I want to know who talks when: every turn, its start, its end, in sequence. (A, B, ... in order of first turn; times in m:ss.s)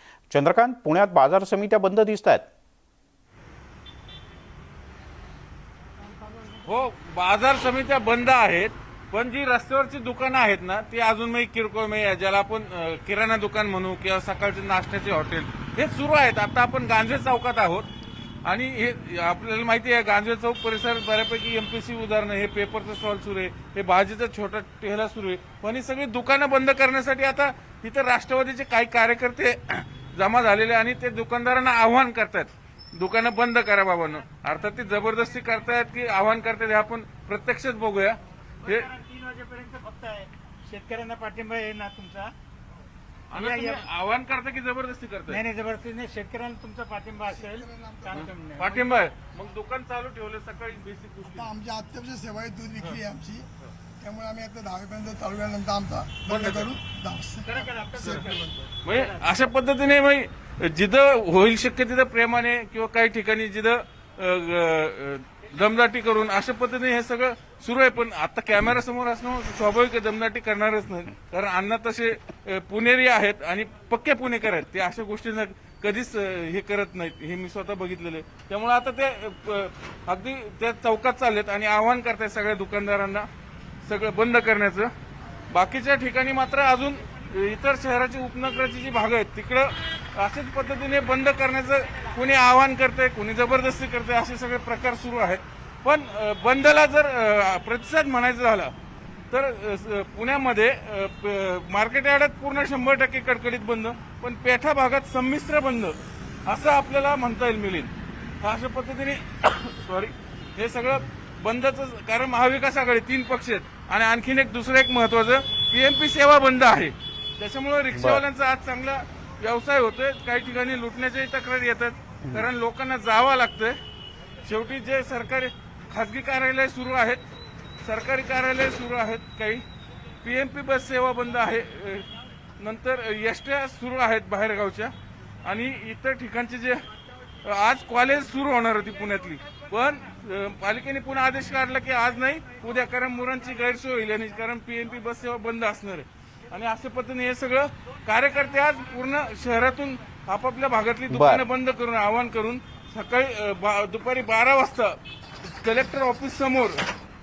0:00.3-0:02.5 A
0:06.0-0:06.6 B
0:06.6-0:17.9 C
0:18.4-0:38.9 C
0:38.6-0:42.3 B
0:43.3-0:45.4 C
0:43.3-0:43.8 B
0:45.3-0:48.9 B
0:47.3-0:48.2 D
0:48.1-0:51.5 C
0:51.3-0:53.5 D
0:54.0-0:58.6 D
0:56.3-0:56.7 C
0:57.4-0:59.2 B
0:58.8-1:23.3 C
1:23.8-1:24.9 C
1:25.5-1:38.7 C
1:39.3-2:03.8 C
1:57.9-1:58.2 A
2:04.4-2:07.2 C
2:07.8-2:09.6 C
2:10.2-2:14.9 C
2:15.4-2:16.9 C
2:17.4-2:36.9 C
2:31.1-2:31.4 A